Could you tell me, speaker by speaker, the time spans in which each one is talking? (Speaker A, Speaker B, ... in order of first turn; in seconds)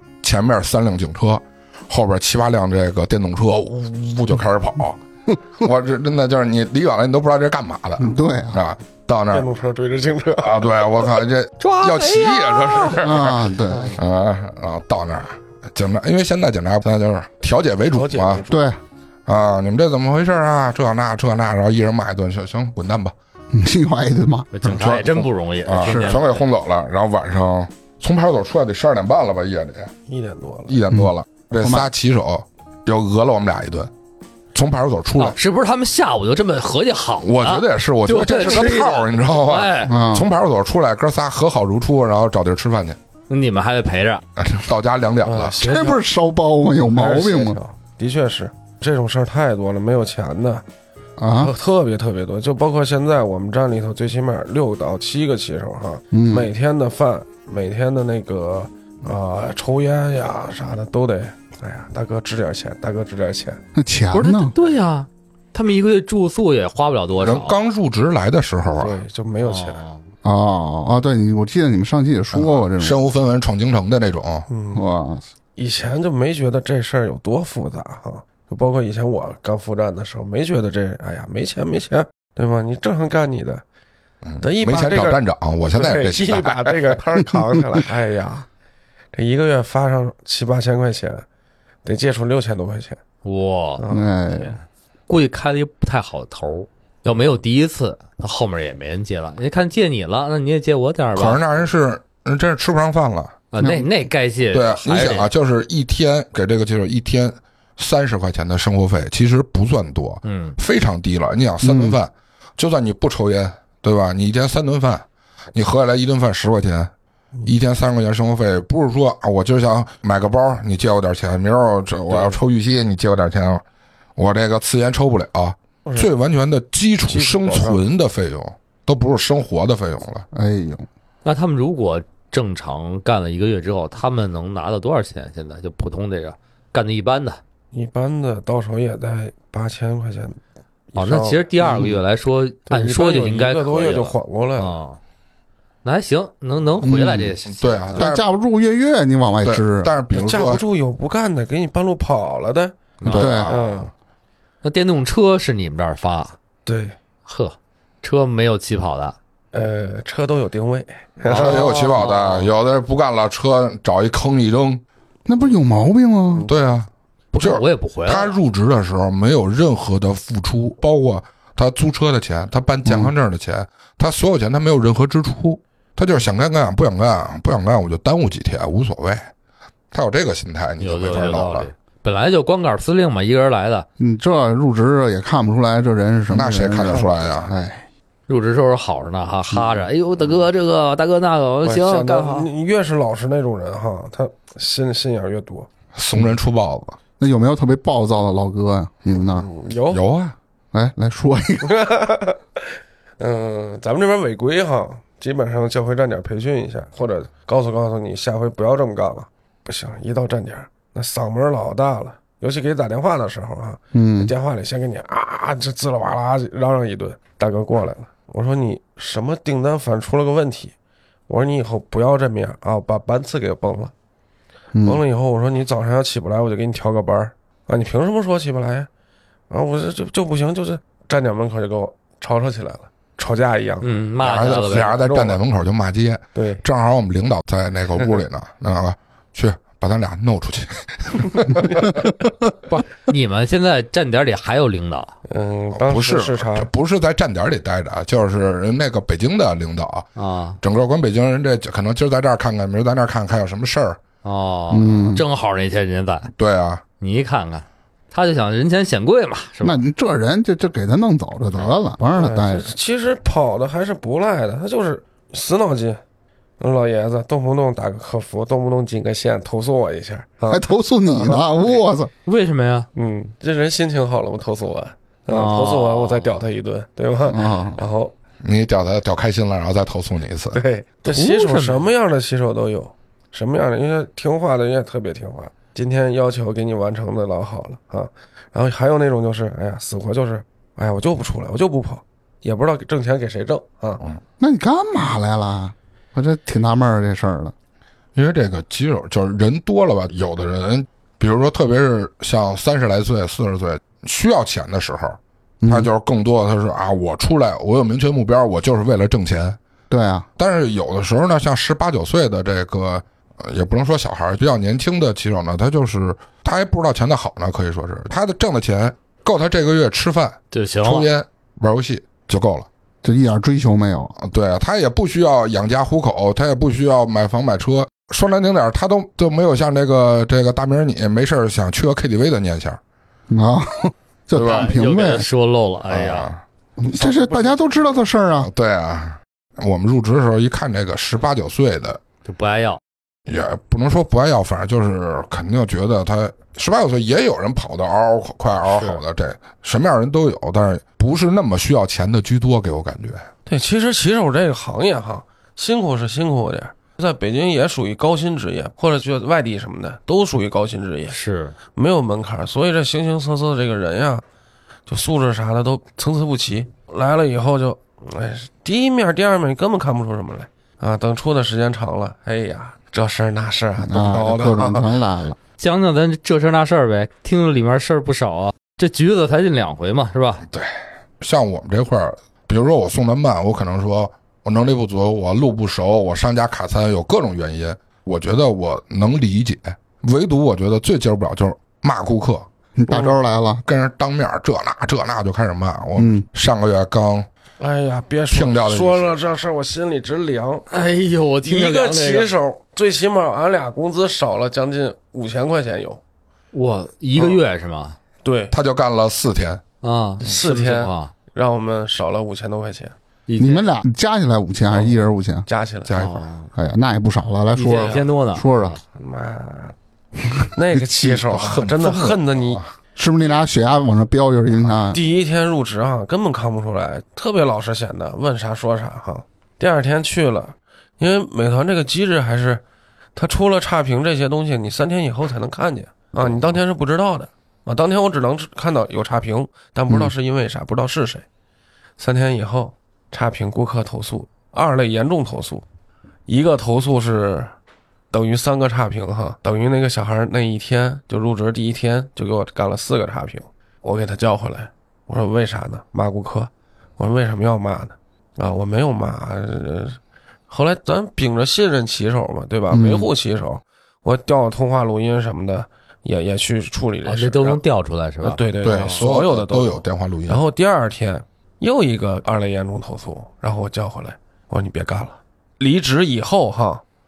Speaker A: 0.2-5.0, 5.6-9.5, 10.4-18.4, 19.2-23.1, 24.6-29.9, 30.7-33.9, 34.5-35.4, 37.2-43.0, 44.4-45.5, 67.2-69.0, 72.3-74.5, 84.2-87.0, 101.1-103.3, 104.5-116.9, 117.4-123.6, 124.2-130.2, 147.5-148.2, 149.4-150.6, 153.0-153.7, 161.3-164.8, 166.5-179.3, 179.9-181.7, 186.3-187.5, 195.9-197.0, 199.9-200.3, 234.2-242.1, 245.8-250.1, 250.6-254.0, 256.4-256.8, 278.4-280.6, 298.1-309.6, 310.4-322.7, 324.2-332.8, 334.3-334.8, 335.9-336.4, 338.4-342.0, 343.3-353.3, 374.1-374.6, 380.5-392.4, 393.6-397.3, 398.3-399.1, 408.5-409.6, 415.9-416.2, 421.2-422.7, 468.6-470.4
Speaker B: 8.0-8.6, 13.0-14.0, 18.5-18.8, 23.5-24.5, 25.8-26.1, 30.9-31.9, 39.9-40.3, 45.6-47.6, 51.2-51.5, 56.1-56.5, 63.7-64.5, 70.2-73.0, 74.7-75.2, 93.9-94.6, 103.6-103.9, 111.6-112.0, 130.3-130.9, 146.8-147.3, 147.9-149.9, 153.1-153.5, 165.2-166.5, 172.8-173.1, 184.0-187.8, 197.2-199.5, 200.7-201.7, 213.9-214.3, 224.7-225.0, 254.7-255.2, 259.6-262.7, 270.5-272.1, 277.3-277.8, 294.4-297.5, 305.6-305.9, 309.9-310.3, 323.0-324.1, 333.3-335.3, 336.8-338.5, 373.8-375.4, 392.8-393.6, 395.9-396.3, 413.4-415.4, 416.5-418.8, 422.9-425.0, 462.7-463.1
Speaker C: 9.3-10.6, 17.9-18.6, 30.1-30.8, 45.2-46.0, 46.8-50.6, 51.4-63.6, 68.7-69.8, 74.5-74.8, 75.6-83.6, 84.4-85.2, 85.7-88.5, 89.1-91.2, 91.8-93.0, 93.8-94.1, 122.1-122.4, 125.8-126.1, 127.1-127.8, 137.7-140.4, 140.9-141.9, 142.7-144.8, 150.1-152.8, 153.3-153.9, 156.7-156.9, 159.5-161.8, 191.6-195.7, 199.3-200.0, 201.6-202.6, 203.2-220.7, 221.3-223.9, 224.8-228.9, 229.5-235.4, 236.3-236.6, 245.3-246.7, 262.1-266.0, 266.6-271.8, 272.9-278.1, 280.5-294.0, 336.9-338.0, 353.4-361.2, 361.7-364.2, 364.9-374.9, 397.6-400.7, 401.4-406.0, 408.2-408.5, 410.2-412.9, 414.7-416.0, 417.7-418.0, 418.9-419.7, 420.5-422.6, 424.9-432.6, 433.1-441.2, 442.0-445.6, 446.3-447.5, 448.1-467.6, 468.2-476.8
Speaker D: 11.6-13.0, 24.5-26.4, 35.2-39.9, 43.3-44.2, 64.1-67.6, 69.4-70.0, 93.2-93.8, 95.1-101.4, 103.5-105.3, 110.2-110.5, 131.2-137.4, 140.9-145.0, 145.8-148.0, 153.0-153.5, 154.6-156.3, 157.2-159.2, 161.2-162.5, 167.3-168.3, 180.8-183.9, 188.3-192.5, 233.8-234.9, 242.7-245.1, 250.2-250.6, 254.2-256.3, 257.0-259.8, 272.2-272.9, 275.3-276.4, 281.1-281.9, 320.5-321.1, 334.4-336.3, 342.2-342.8, 348.6-349.0, 361.1-361.5, 375.6-380.4, 400.7-402.3, 406.5-408.0, 409.8-411.1, 413.3-413.6, 415.9-416.5, 417.5-418.8, 467.0-469.0